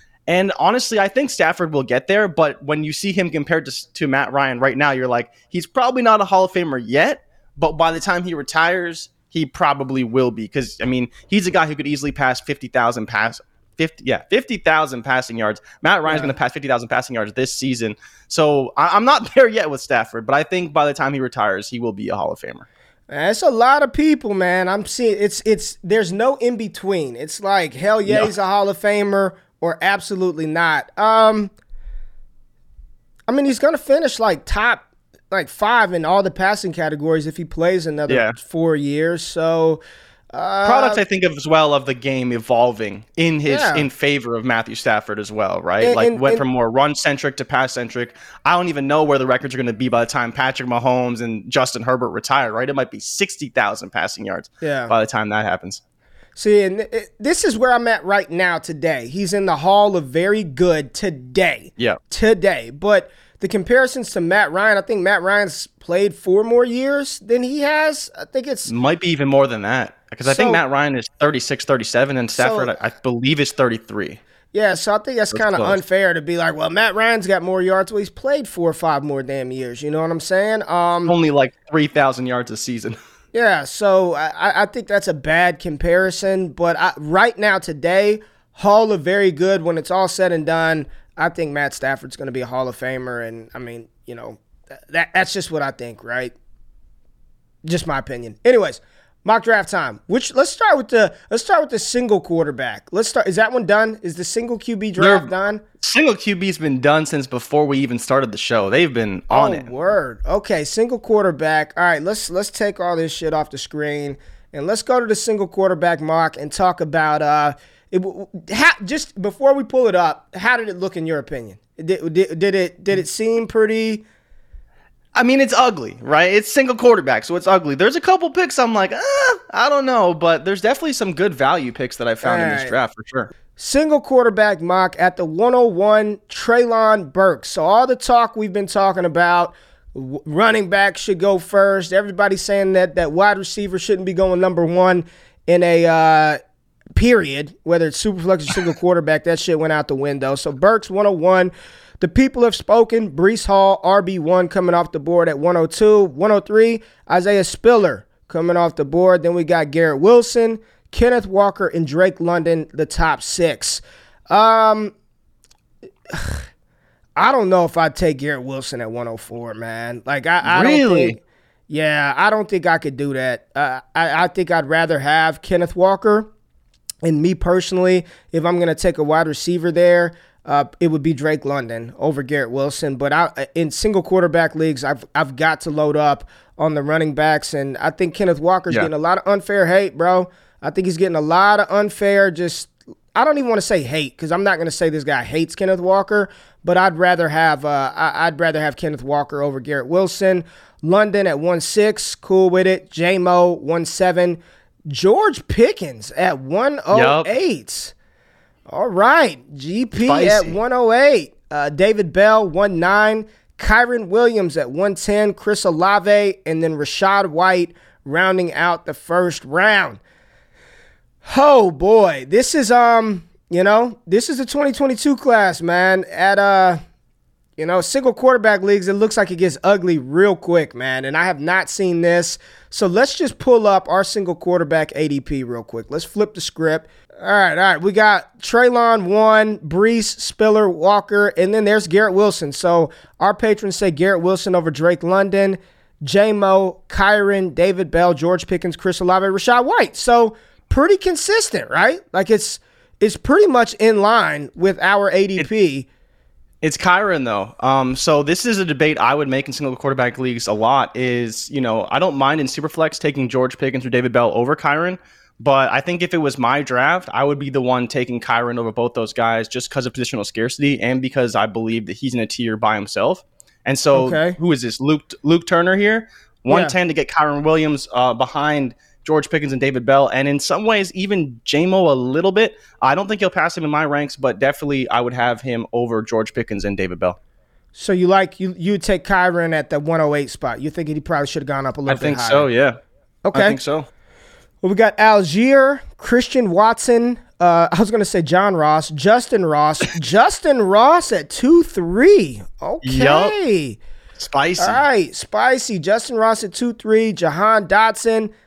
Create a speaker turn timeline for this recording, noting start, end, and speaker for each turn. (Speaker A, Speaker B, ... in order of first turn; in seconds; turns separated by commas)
Speaker A: 0.3-22.6, Speaker B: 16.1-16.3, Speaker B: 23.1-31.5, Speaker A: 28.1-28.3, Speaker B: 33.3-39.8, Speaker A: 38.1-38.4, Speaker B: 40.3-41.0, Speaker A: 40.6-55.8, Speaker B: 43.5-43.9, Speaker B: 45.8-46.4, Speaker B: 54.6-54.9, Speaker B: 56.4-68.7, Speaker A: 68.7-74.2, Speaker B: 70.2-70.6, Speaker B: 72.3-72.8, Speaker B: 74.5-81.1, Speaker A: 75.3-75.8, Speaker A: 81.1-83.0, Speaker B: 83.3-96.3, Speaker B: 97.6-105.6, Speaker A: 105.0-105.3, Speaker A: 105.8-109.7, Speaker B: 109.3-124.0, Speaker A: 125.1-133.3, Speaker B: 132.2-132.7, Speaker B: 133.6-146.4, Speaker B: 146.9-164.9, Speaker B: 166.1-166.4, Speaker B: 167.2-171.2, Speaker A: 170.4-171.2, Speaker B: 171.7-176.3, Speaker B: 177.0-207.9, Speaker A: 206.9-207.3, Speaker B: 208.7-220.0, Speaker A: 209.9-210.5, Speaker B: 221.2-226.8, Speaker B: 227.6-255.9, Speaker A: 256.6-287.2, Speaker B: 273.9-274.4, Speaker B: 276.5-276.7, Speaker B: 287.8-292.5, Speaker A: 291.9-292.8, Speaker B: 293.2-293.6, Speaker A: 293.3-293.9, Speaker B: 294.6-303.8, Speaker A: 302.8-303.4, Speaker A: 304.2-304.8, Speaker B: 304.6-308.3